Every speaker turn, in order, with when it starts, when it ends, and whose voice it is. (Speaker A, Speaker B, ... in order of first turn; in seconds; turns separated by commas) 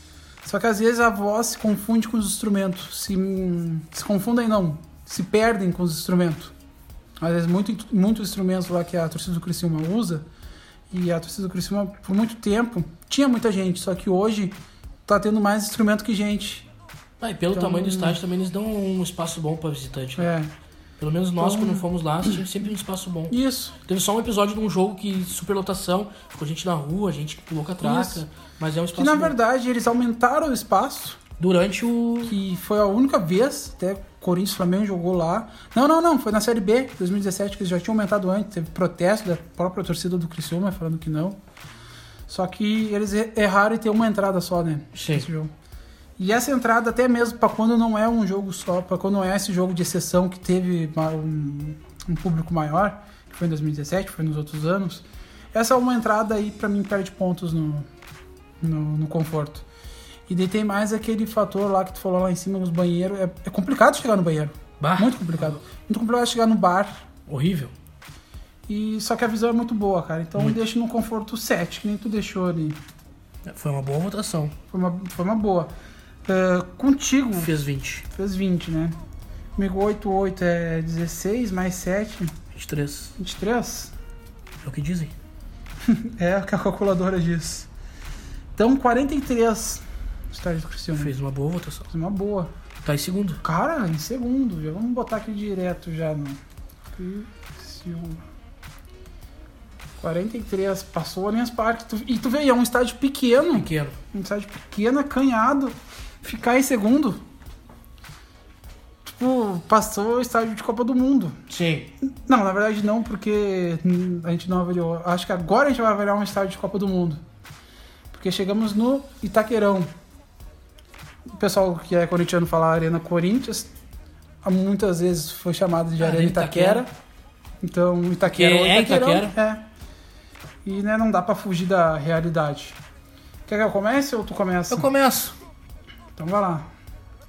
Speaker A: 0.4-6.5, Speaker A: 7.2-10.2, Speaker A: 10.9-14.6, Speaker A: 15.1-16.7, Speaker B: 17.2-20.3, Speaker A: 17.5-18.2, Speaker A: 20.2-20.5, Speaker B: 21.0-29.4, Speaker A: 21.4-22.4, Speaker A: 23.3-23.8, Speaker A: 27.8-28.2, Speaker A: 29.0-31.2, Speaker B: 31.4-32.4, Speaker A: 32.2-41.4, Speaker A: 42.3-45.5, Speaker B: 44.9-45.3, Speaker A: 46.2-57.9, Speaker A: 58.6-59.6, Speaker A: 60.3-67.1, Speaker B: 64.8-65.6, Speaker B: 67.3-67.7, Speaker A: 68.7-72.8, Speaker B: 73.5-74.6, Speaker A: 74.7-75.7, Speaker A: 76.3-77.5, Speaker B: 77.4-78.1, Speaker A: 78.1-79.0, Speaker A: 79.6-82.3, Speaker B: 82.5-83.2, Speaker A: 83.2-83.9, Speaker B: 84.6-85.1, Speaker A: 85.8-87.7, Speaker A: 88.6-91.1, Speaker B: 91.0-91.9, Speaker A: 91.9-92.5, Speaker B: 92.8-93.4, Speaker A: 93.4-96.4, Speaker A: 97.0-98.2, Speaker A: 100.0-107.2, Speaker B: 103.5-104.0, Speaker A: 109.0-111.4, Speaker B: 111.5-111.9, Speaker A: 112.0-117.2, Speaker A: 118.1-119.9, Speaker A: 121.4-123.7, Speaker A: 124.4-126.9, Speaker B: 126.0-126.8, Speaker A: 127.6-129.7, Speaker B: 128.3-129.4, Speaker A: 130.7-132.8, Speaker A: 133.5-134.9, Speaker B: 134.7-135.4, Speaker A: 136.2-136.7